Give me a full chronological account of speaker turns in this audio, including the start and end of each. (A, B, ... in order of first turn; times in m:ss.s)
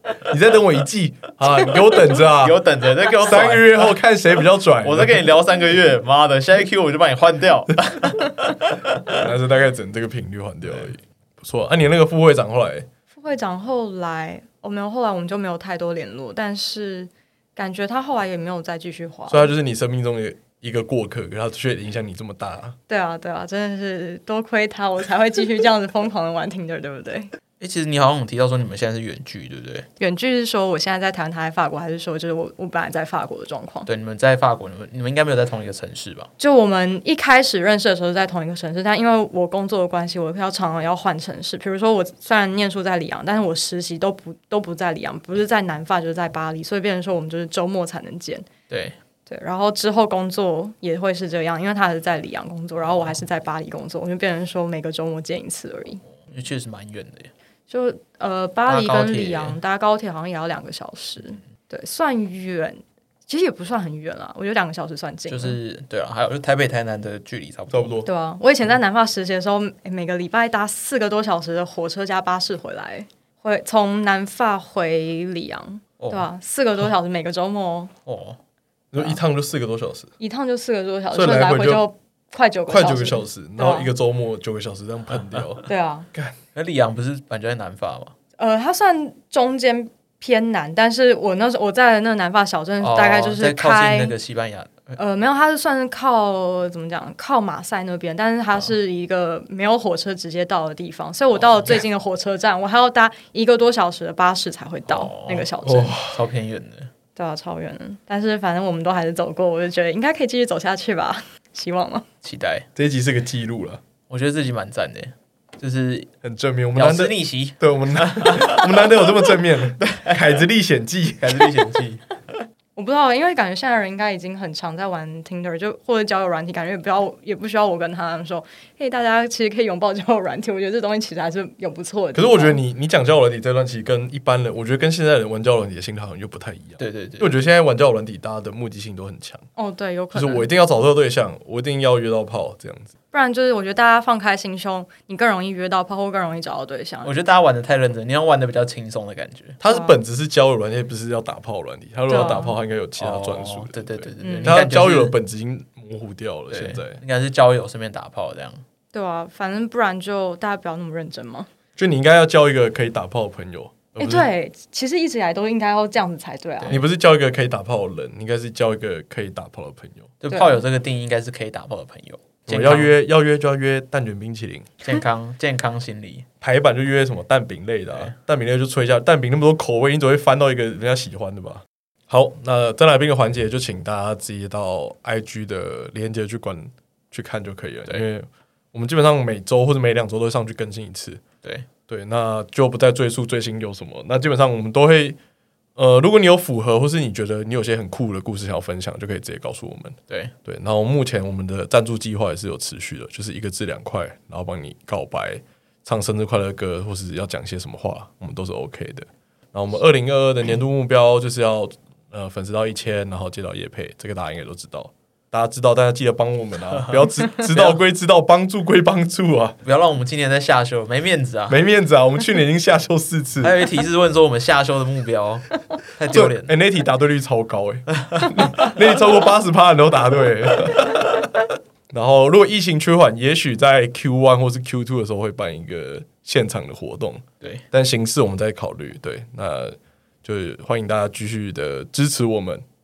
0:00.3-0:02.6 A
0:02.2-0:04.0 B
0:03.1-0:05.3 A
0:04.8-0:09.2 B
0:09.1-0:12.9 A
0:13.1-0:19.5 C
0:19.3-0:22.7 A
0:22.9-0:27.3 C
0:27.6-0:29.8 B
0:30.0-0:33.9 C
0:33.8-0:36.3 B
0:36.4-0:48.4 C
0:48.7-0:49.0 B
0:49.3-0:56.0 C
0:56.2-0:57.3 B
0:57.7-1:05.6 C
0:58.7-0:59.6 B
1:05.3-1:08.0 B
1:07.7-1:08.1 A
1:08.0-1:17.9 C
1:16.0-1:16.2 B
1:18.0-1:18.4 B
1:18.9-1:20.1 A
1:20.2-1:23.9 C
1:21.1-1:21.8 A
1:22.7-1:26.4 A
1:25.6-1:26.1 C
1:26.5-1:28.1 B
1:28.4-1:34.2 C
1:32.8-1:35.0 B
1:35.0-1:46.0 C
1:41.5-1:41.8 B
1:44.9-1:46.9 B
1:45.6-1:46.2 A
1:47.2-1:52.0 C
1:52.2-1:52.6 B
1:52.8-1:53.8 A
1:54.1-1:56.1 B
1:56.2-2:01.6 A
1:56.8-1:58.9 B
1:59.8-2:00.4 B
2:01.2-2:02.2 B
2:02.8-2:12.6 C
2:12.1-2:19.4 A
2:16.8-2:17.3 B
2:19.6-2:20.4 C
2:20.1-2:22.9 A
2:23.1-2:27.2 C
2:27.0-2:29.6 B
2:29.6-2:37.0 A
2:29.7-2:30.0 C
2:32.1-2:32.6 C
2:33.0-2:35.2 B
2:34.2-2:34.6 C
2:36.5-2:38.6 B
2:38.9-2:41.5 C
2:41.8-2:44.3 A
2:44.0-2:46.8 C
2:46.7-2:50.1 A
2:50.2-2:52.9 B
2:50.3-2:50.6 C
2:52.5-2:54.7 A
2:54.8-2:56.2 B
2:56.4-3:11.2 A
3:11.9-3:15.2 A
3:15.8-3:39.6 A
3:36.8-3:37.8 B
3:39.6-3:41.6 B
3:41.5-3:43.6 A
3:43.4-3:46.5 B
3:46.1-4:02.6 A
3:48.0-3:48.7 B